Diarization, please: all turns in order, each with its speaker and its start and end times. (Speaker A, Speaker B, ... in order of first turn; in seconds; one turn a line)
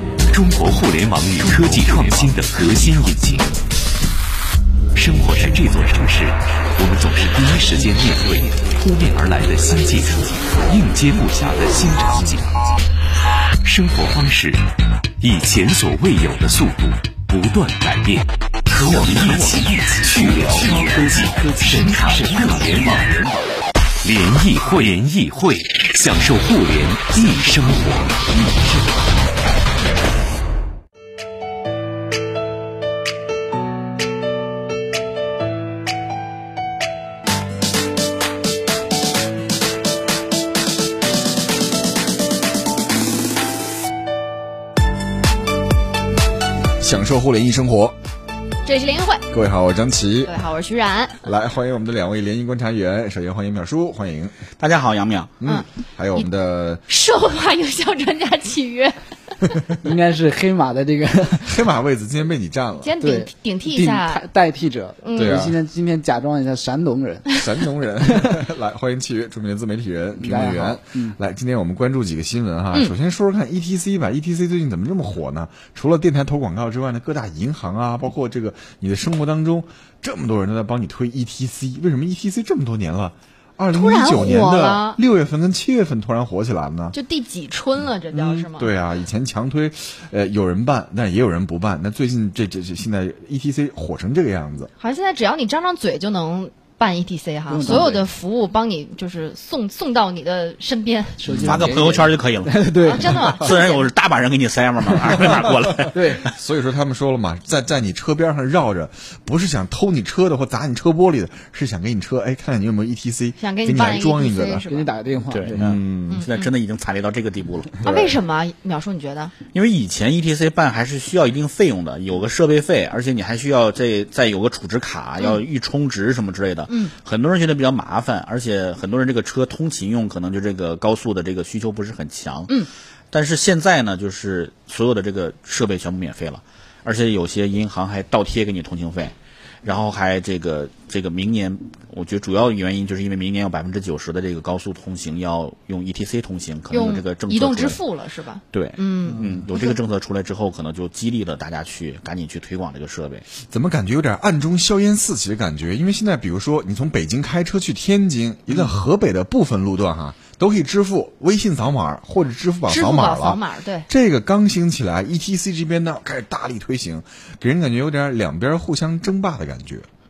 Speaker A: 0.3-3.5
Speaker A: 4.9-12.5
Speaker A: 13.6-14.7
Speaker A: 15.2-23.4
Speaker A: 24.0-28.9
Speaker B: 46.8-48.0
Speaker C: 48.6-49.3
Speaker B: 49.3-50.3
Speaker C: 50.2-51.2
Speaker B: 51.2-54.4
Speaker D: 54.6-55.3
Speaker B: 55.4-56.8
Speaker C: 55.4-56.3
Speaker C: 56.9-59.5
Speaker E: 59.8-61.7
Speaker B: 61.4-62.9
Speaker C: 62.8-64.2
Speaker E: 63.0-67.4
Speaker C: 65.0-65.4
Speaker B: 65.1-65.6
Speaker B: 67.3-87.0
Speaker E: 68.0-68.3
Speaker E: 70.2-71.2
Speaker C: 83.7-85.0
Speaker C: 86.9-88.7
Speaker B: 88.1-94.7
Speaker C: 94.8-101.2
Speaker E: 97.5-97.9
Speaker D: 97.6-98.0
Speaker E: 101.2-103.4
Speaker B: 101.2-101.7
Speaker D: 101.3-106.3
Speaker C: 102.8-103.9
Speaker B: 105.7-114.6
Speaker E: 105.9-106.3
Speaker C: 113.4-114.9
Speaker E: 114.6-115.6
Speaker D: 115.3-118.2
Speaker B: 115.5-116.2
Speaker C: 116.1-116.5
Speaker C: 117.8-119.3
Speaker D: 119.5-147.8
Speaker C: 126.7-126.9
Speaker C: 146.7-149.8
Speaker D: 148.5-153.3
Speaker B: 153.4-169.8
Speaker C: 162.7-163.9